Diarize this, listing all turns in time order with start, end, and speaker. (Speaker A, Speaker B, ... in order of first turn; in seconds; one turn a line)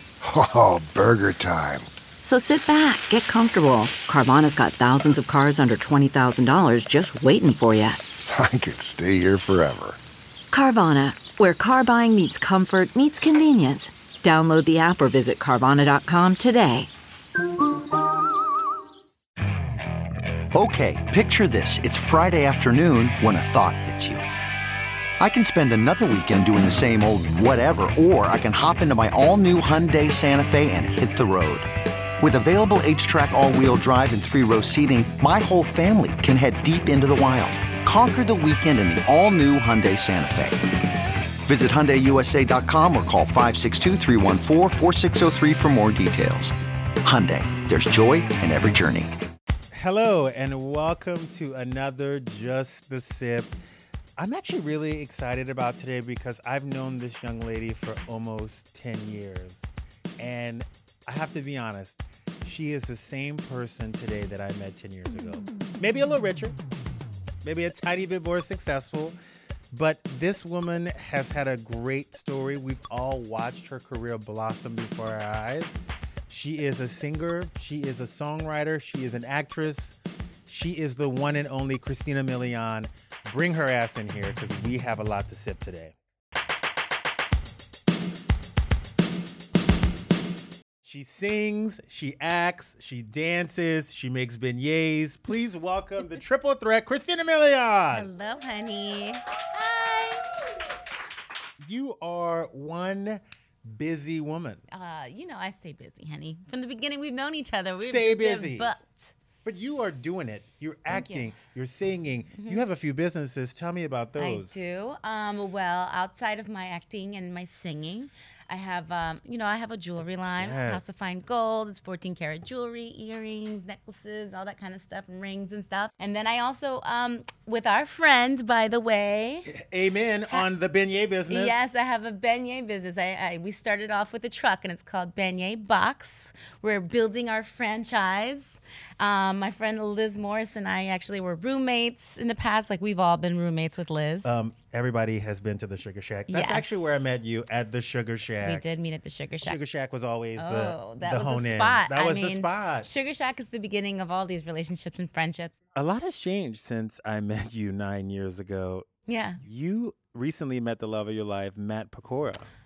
Speaker A: 0.2-1.9
Speaker B: 2.2-8.0
Speaker A: 8.3-10.0
Speaker B: 10.5-16.9
Speaker C: 20.5-24.2
Speaker C: 25.2-31.7
Speaker C: 32.2-40.6
Speaker C: 41.4-49.1
Speaker D: 49.7-53.5
Speaker D: 54.2-66.6
Speaker D: 67.4-69.2
Speaker D: 69.7-85.9
Speaker D: 90.8-98.1
Speaker E: 97.9-100.3
Speaker D: 101.6-104.6
Speaker E: 104.7-109.1
Speaker D: 107.8-108.7
Speaker D: 109.4-114.5
Speaker E: 110.9-111.3
Speaker E: 112.3-112.6
Speaker E: 114.2-129.5
Speaker D: 120.4-120.9
Speaker D: 129.5-131.7
Speaker E: 131.3-144.4
Speaker D: 144.2-148.6
Speaker E: 146.3-147.1
Speaker E: 148.4-149.6
Speaker D: 149.4-152.9
Speaker E: 150.3-155.6
Speaker D: 155.7-158.9
Speaker E: 159.1-159.4
Speaker D: 159.4-162.5